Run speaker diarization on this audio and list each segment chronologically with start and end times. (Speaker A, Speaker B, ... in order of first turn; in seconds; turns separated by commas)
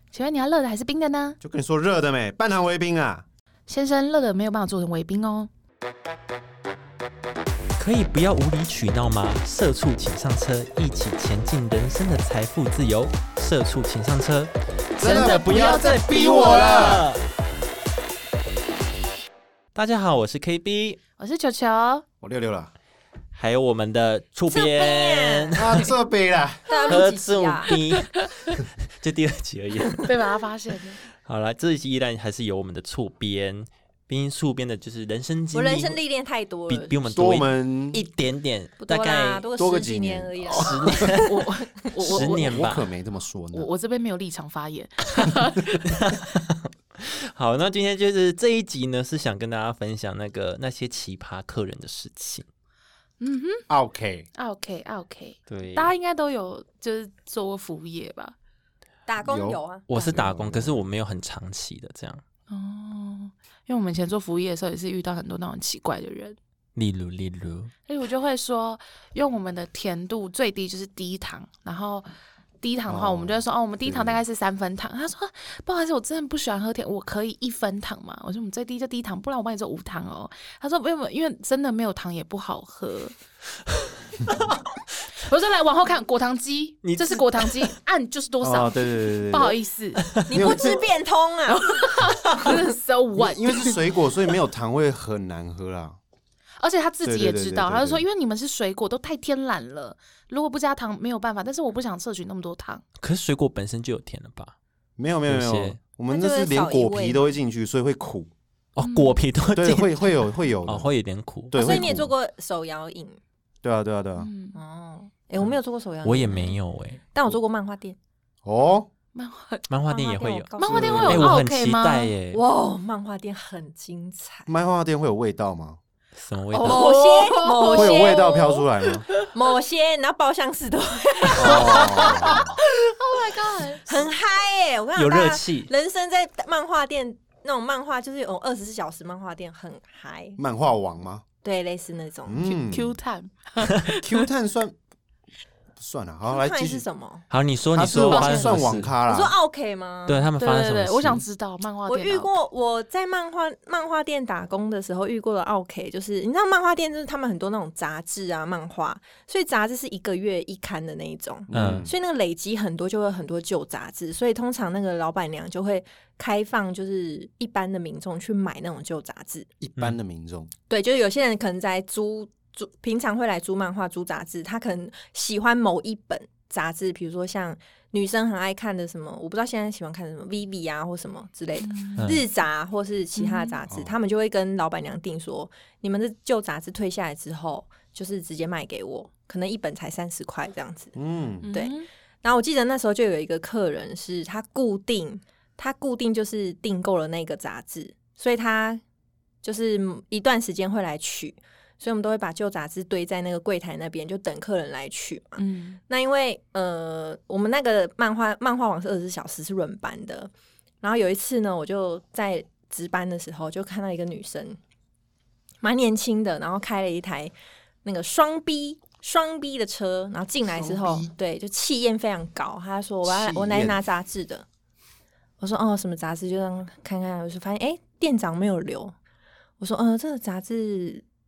Speaker A: 0.1-1.4, Speaker B: 1.4-3.2, Speaker A: 3.7-5.5, Speaker C: 7.8-17.2, Speaker B: 15.0-17.1, Speaker A: 15.0-17.1, Speaker C: 19.8-21.0, Speaker A: 21.2-22.1, Speaker B: 22.2-22.7, Speaker C: 23.4-25.9, Speaker D: 24.5-25.6, Speaker B: 25.6-26.7, Speaker D: 26.7-27.7, Speaker C: 26.9-30.1, Speaker A: 27.7-28.6, Speaker A: 30.0-31.0, Speaker C: 31.2-36.0, Speaker D: 35.5-36.9, Speaker C: 36.7-39.5, Speaker B: 37.1-38.0, Speaker D: 38.8-41.3, Speaker B: 39.6-41.1, Speaker C: 40.5-42.9, Speaker A: 41.2-42.7, Speaker B: 42.0-43.7, Speaker A: 43.5-46.0, Speaker C: 45.9-52.5, Speaker A: 53.2-53.6, Speaker B: 53.7-54.3, Speaker A: 54.4-58.4, Speaker C: 55.5-55.9, Speaker D: 59.1-59.9, Speaker B: 59.2-60.8, Speaker C: 59.9-62.2, Speaker A: 62.5-66.4, Speaker C: 66.8-67.7, Speaker A: 67.9-72.1, Speaker A: 72.6-83.1, Speaker B: 72.9-74.2, Speaker A: 85.2-90.0, Speaker C: 86.8-87.7, Speaker B: 88.4-89.6, Speaker D: 90.3-91.9, Speaker B: 90.3-90.8, Speaker A: 91.5-93.8, Speaker B: 93.2-96.0, Speaker A: 96.6-102.8, Speaker B: 97.0-98.0, Speaker C: 103.0-104.5, Speaker B: 105.0-108.3, Speaker C: 105.3-105.8, Speaker D: 106.1-107.3, Speaker C: 108.8-111.9, Speaker A: 108.8-109.2, Speaker B: 109.5-110.9, Speaker B: 111.5-112.1, Speaker D: 111.5-113.2, Speaker B: 113.6-114.3, Speaker A: 114.2-114.6, Speaker D: 114.5-116.6, Speaker C: 116.0-117.0, Speaker D: 117.1-118.0, Speaker B: 118.4-118.9, Speaker A: 119.2-119.7, Speaker C: 119.7-120.5, Speaker D: 119.9-121.3, Speaker A: 120.6-122.1, Speaker B: 120.6-121.3, Speaker C: 121.0-122.4, Speaker D: 122.3-124.5, Speaker B: 124.5-125.8, Speaker C: 126.2-127.1, Speaker D: 126.5-128.6, Speaker A: 126.6-128.5, Speaker B: 127.7-129.1, Speaker D: 129.3-132.6, Speaker B: 131.4-132.5, Speaker A: 131.5-134.1, Speaker D: 133.9-140.4, Speaker C: 135.0-135.7, Speaker B: 140.4-141.2, Speaker D: 141.4-142.6, Speaker B: 142.3-142.9, Speaker A: 142.5-144.3, Speaker B: 143.9-144.8, Speaker B: 145.8-146.8, Speaker D: 146.3-147.2, Speaker C: 147.3-148.9, Speaker B: 147.8-149.3, Speaker A: 148.1-148.5, Speaker D: 149.1-150.3, Speaker C: 150.1-151.2, Speaker A: 150.4-152.3, Speaker D: 151.9-169.5, Speaker B: 161.5-161.9, Speaker C: 161.5-161.9, Speaker B: 169.6-170.5, Speaker D: 170.7-191.0, Speaker A: 181.6-182.1, Speaker C: 182.0-182.2, Speaker A: 183.2-183.6, Speaker B: 183.7-183.9, Speaker B: 191.0-191.5, Speaker A: 191.4-191.9, Speaker D: 191.5-198.8, Speaker D: 199.4-214.6, Speaker A: 205.4-205.8, Speaker D: 215.6-217.3, Speaker D: 217.8-224.4, Speaker B: 220.5-221.1, Speaker B: 223.0-223.8, Speaker D: 225.4-228.9, Speaker D: 229.6-231.0